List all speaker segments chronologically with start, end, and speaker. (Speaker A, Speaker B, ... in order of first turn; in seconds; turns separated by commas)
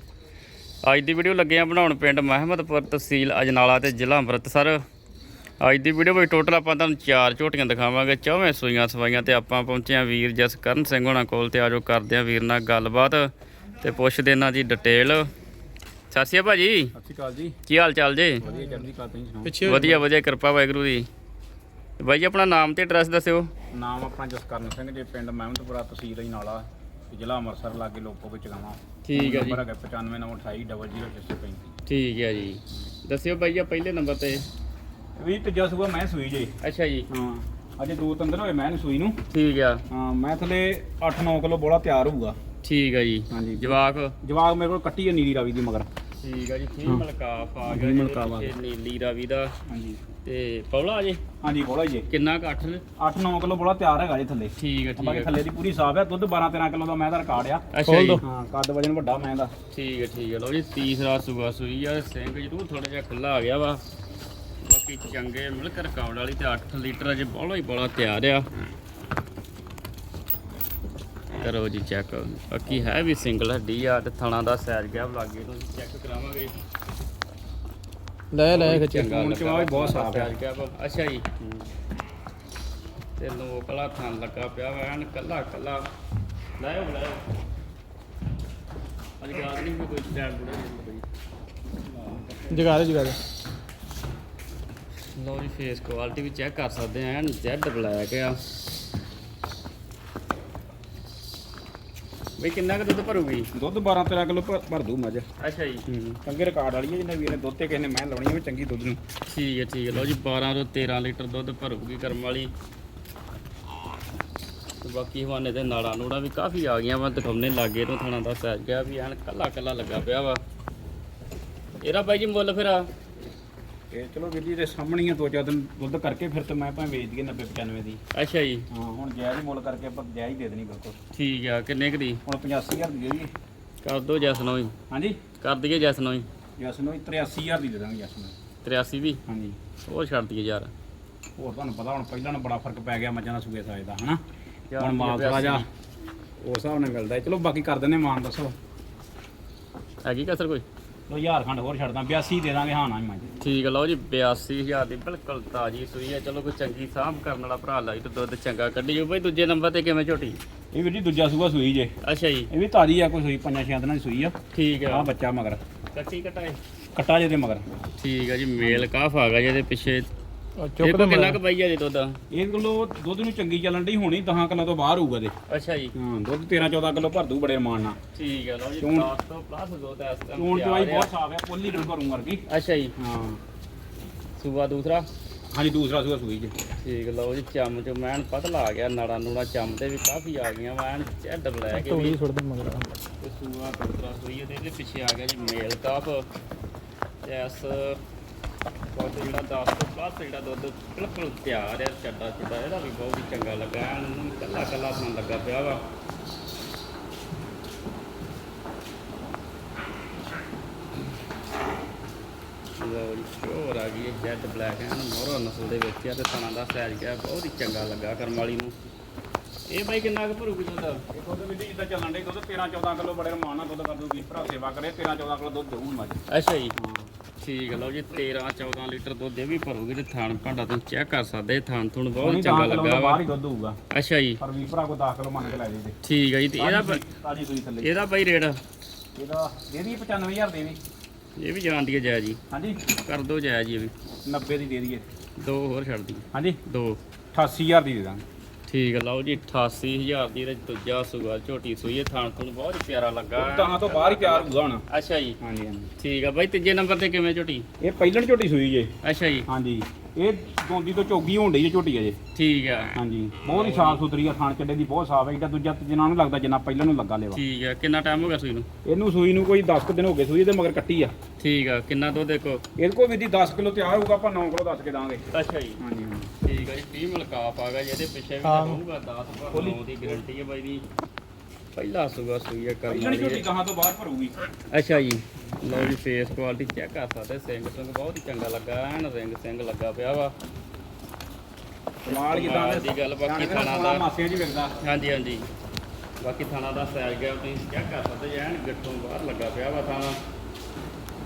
Speaker A: 0.8-4.8, Speaker A: 5.6-15.3, Speaker A: 16.1-16.9, Speaker B: 16.9-17.6, Speaker A: 17.7-18.4, Speaker B: 18.4-19.7, Speaker C: 19.4-20.0, Speaker A: 19.6-21.1, Speaker A: 22.0-23.5, Speaker B: 23.7-31.7, Speaker A: 29.0-29.6, Speaker A: 31.9-34.5, Speaker B: 35.2-36.5, Speaker A: 36.6-37.1, Speaker B: 37.1-39.2, Speaker A: 39.3-39.8, Speaker B: 39.9-42.4, Speaker A: 42.6-44.2, Speaker B: 43.3-45.9, Speaker A: 46.2-49.5, Speaker B: 47.7-48.5, Speaker B: 49.7-50.0, Speaker A: 50.2-51.2, Speaker B: 51.4-52.1, Speaker A: 52.1-52.8, Speaker B: 53.0-57.6, Speaker A: 54.6-55.4, Speaker A: 57.7-58.2, Speaker C: 57.9-58.2, Speaker B: 58.2-59.5, Speaker A: 59.7-63.8, Speaker A: 64.6-68.5, Speaker A: 71.4-76.5, Speaker C: 78.3-79.1, Speaker A: 78.5-81.4, Speaker B: 78.7-80.3, Speaker A: 83.2-85.9, Speaker A: 86.6-87.2, Speaker A: 89.2-91.0, Speaker B: 91.9-92.8, Speaker C: 92.5-93.2, Speaker A: 95.2-98.4, Speaker A: 102.4-103.5, Speaker B: 103.5-105.3, Speaker A: 105.4-105.9, Speaker B: 105.9-109.0, Speaker A: 109.3-112.5, Speaker A: 114.8-120.4, Speaker A: 121.8-122.9, Speaker B: 123.9-128.0, Speaker A: 128.1-128.7, Speaker B: 128.7-131.0, Speaker A: 131.1-132.2, Speaker B: 132.3-133.3, Speaker A: 133.8-134.7, Speaker B: 134.9-135.2, Speaker A: 135.4-136.3, Speaker B: 136.6-138.3, Speaker A: 138.6-139.2, Speaker B: 139.3-139.6, Speaker A: 139.9-140.7, Speaker B: 141.4-144.2, Speaker A: 144.7-145.7, Speaker B: 144.8-145.7, Speaker B: 146.4-148.6, Speaker A: 150.0-150.7, Speaker B: 151.1-153.3, Speaker A: 153.4-160.4, Speaker B: 160.7-161.9, Speaker A: 162.0-162.5, Speaker B: 162.5-165.6, Speaker A: 164.5-165.1, Speaker A: 165.9-166.6, Speaker B: 167.0-167.7, Speaker A: 168.0-170.1, Speaker B: 168.6-168.9, Speaker C: 170.6-171.4, Speaker A: 170.8-172.2, Speaker B: 172.3-175.3, Speaker A: 175.5-175.9, Speaker B: 176.0-178.0, Speaker A: 178.2-181.1, Speaker B: 178.8-179.1, Speaker B: 180.4-182.4, Speaker A: 182.5-182.9, Speaker B: 183.0-183.4, Speaker A: 184.4-185.1, Speaker B: 185.5-186.5, Speaker A: 186.8-192.2, Speaker C: 191.7-192.9, Speaker A: 193.2-196.3, Speaker A: 197.2-198.0, Speaker A: 198.9-205.8, Speaker A: 212.8-218.8, Speaker A: 219.7-221.1, Speaker B: 221.1-226.2, Speaker A: 226.3-226.8, Speaker B: 226.8-227.1, Speaker A: 227.4-233.2, Speaker B: 232.2-233.8, Speaker A: 233.9-234.4, Speaker B: 234.4-236.0, Speaker A: 236.0-237.0, Speaker B: 236.6-237.9, Speaker A: 237.8-238.6, Speaker B: 239.2-240.8, Speaker A: 241.4-242.4, Speaker B: 242.5-242.8, Speaker A: 243.0-243.9, Speaker B: 244.2-245.1, Speaker A: 245.4-247.0, Speaker B: 247.3-248.2, Speaker A: 248.7-255.4, Speaker B: 253.4-254.8, Speaker B: 255.4-255.9, Speaker A: 256.0-257.7, Speaker B: 257.8-258.9, Speaker A: 259.0-259.5, Speaker B: 259.5-262.2, Speaker A: 262.4-264.0, Speaker B: 263.0-267.4, Speaker A: 267.3-268.7, Speaker B: 268.9-271.1, Speaker A: 271.4-272.6, Speaker B: 272.8-275.2, Speaker A: 275.3-275.8, Speaker B: 275.8-276.3, Speaker A: 276.4-280.9, Speaker C: 278.4-278.8, Speaker B: 279.5-280.2, Speaker A: 281.8-283.4, Speaker B: 282.9-284.4, Speaker A: 284.7-290.3, Speaker B: 292.0-294.8, Speaker A: 292.1-294.1, Speaker A: 294.8-295.5, Speaker A: 296.2-300.2